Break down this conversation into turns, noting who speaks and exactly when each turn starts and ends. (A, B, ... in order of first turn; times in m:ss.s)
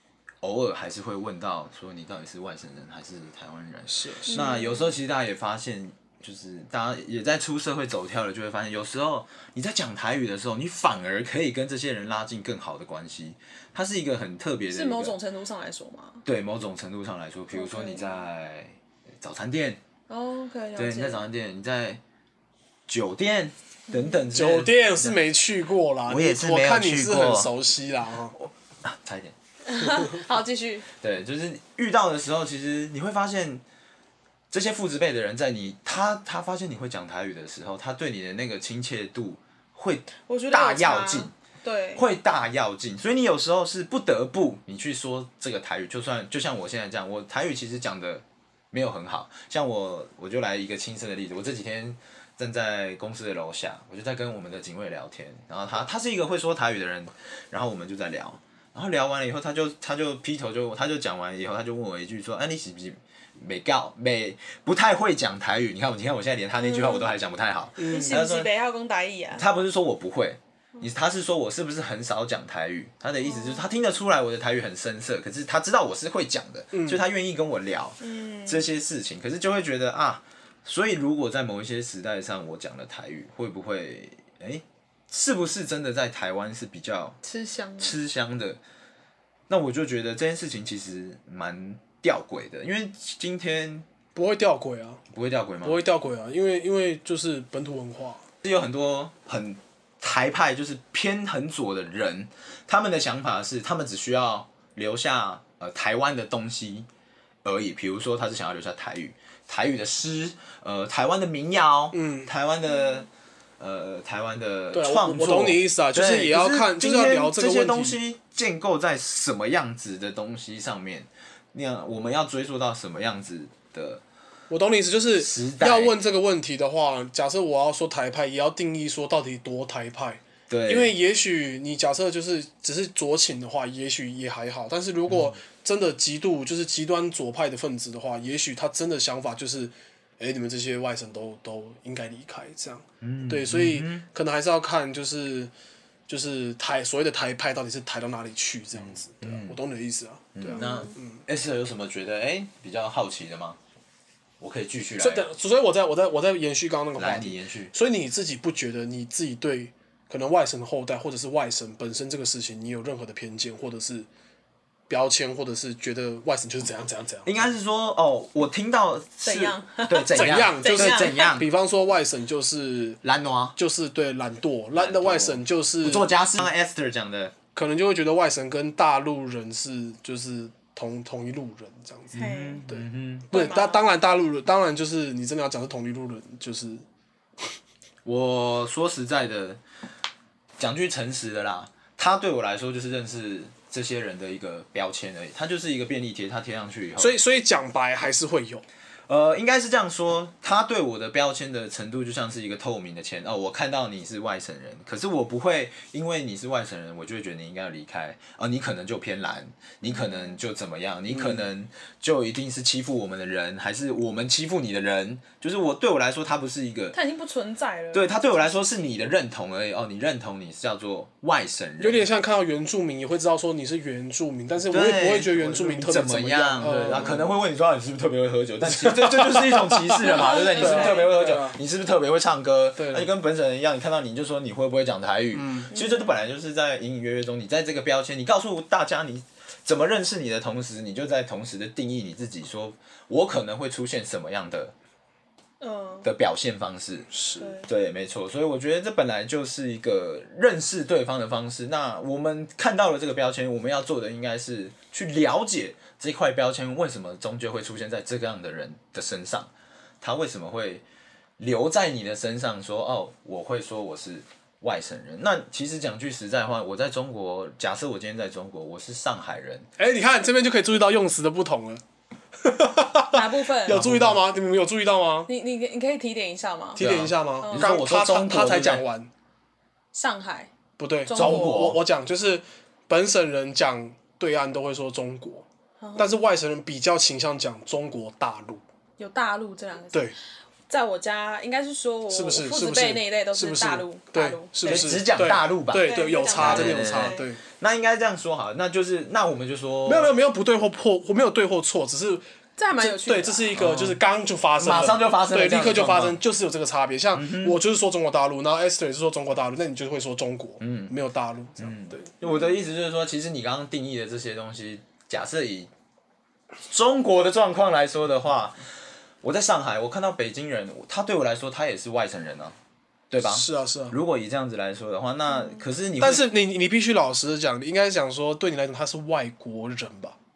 0:00.4-0:15.2 A
0:03.9-0:04.5 B
0:04.3-0:04.9 C
0:14.7-0:16.2 C
0:16.2-0:19.8 A
0:17.5-0:18.2 C
0:20.1-0:21.2 C
0:20.8-0:22.0 A
0:22.9-0:25.2 A
0:23.9-0:24.3 C
0:24.3-0:28.4 B
0:26.1-0:27.5 A
0:28.4-0:29.4 A
0:29.7-0:30.9 C
0:29.8-0:30.1 B
0:31.0-0:33.6 A
0:34.5-0:41.3 A
0:40.2-0:42.0 C
0:42.0-1:08.5 A
1:06.6-1:07.1 C
1:07.8-1:08.2 B
1:07.8-1:09.4 C
1:09.4-1:27.2 A
1:13.2-1:13.7 C
1:16.7-1:17.0 B
1:18.0-1:18.7 C
1:27.2-1:28.0 C
1:27.8-1:28.6 A
1:29.5-1:33.9 A
1:34.2-1:35.0 B
1:35.1-1:35.8 A
1:35.6-1:38.2 B
1:38.4-1:46.9 A
1:47.4-1:53.1 A
1:51.9-1:52.3 B
1:53.6-2:04.0 A
1:54.7-1:58.0 B
2:04.5-2:25.5 B
2:05.2-2:06.0 A
2:10.5-2:10.9 A
2:15.1-2:15.4 A
2:23.0-2:24.1 A
2:26.1-2:31.2 B
2:28.8-2:29.6 A
2:30.4-2:33.6 A
2:30.5-2:30.9 C
2:34.4-2:35.3 A
2:35.0-2:44.1 B
2:37.0-2:37.7 A
2:44.9-2:47.4 B
2:47.2-2:51.5 A
2:49.2-2:51.3 C
2:50.1-2:53.0 B
2:53.0-2:53.6 A
2:53.6-2:56.1 B
2:54.7-2:57.3 A
2:57.6-3:06.8 B
3:02.1-3:02.6 C
3:02.1-3:03.3 A
3:03.3-3:03.8 C
3:08.0-3:09.6 A
3:10.6-3:17.2 A
3:17.0-3:18.6 B
3:19.1-3:37.0 A
3:29.9-3:30.4 C
3:31.1-3:31.4 B
3:36.9-3:38.5 C
3:37.9-3:42.0 A
3:41.8-3:47.3 B
3:44.7-4:04.7 A
3:48.7-3:51.6 B
3:50.0-3:51.1 C
3:52.8-3:53.1 B
3:55.4-3:55.7 B
3:55.7-3:56.2 C
4:05.6-4:06.1 C
4:06.0-4:07.1 A
4:07.1-4:07.6 B
4:07.4-4:07.7 C
4:07.6-4:20.8 A
4:21.4-4:29.7 A
4:29.8-4:31.8 B
4:32.4-4:35.3 B
4:33.1-4:33.8 C
4:33.7-4:34.2 A
4:35.3-4:36.8 C
4:36.8-4:39.1 B
4:36.8-4:38.8 A
4:37.4-4:37.8 C
4:39.9-4:40.5 C
4:40.8-4:45.5 B
4:41.0-4:41.7 C
4:41.1-4:41.8 A
4:45.8-4:46.2 C
4:46.0-4:48.6 B
4:49.0-4:50.2 C
4:50.7-4:55.0 C
4:52.1-4:57.4 B
4:54.6-5:00.1 A
4:55.8-4:57.3 C
4:59.9-5:02.2 B
5:02.6-5:03.5 C
5:02.8-5:12.1 B
5:03.5-5:04.0 A
5:04.6-5:06.2 A
5:07.2-5:07.6 A
5:10.6-5:11.0 A
5:11.6-5:15.7 A
5:12.2-5:12.6 C
5:16.7-5:18.6 A
5:19.2-5:22.6 A
5:23.1-5:26.2 A
5:23.2-5:24.0 B
5:25.3-5:25.6 C
5:26.0-5:30.2 B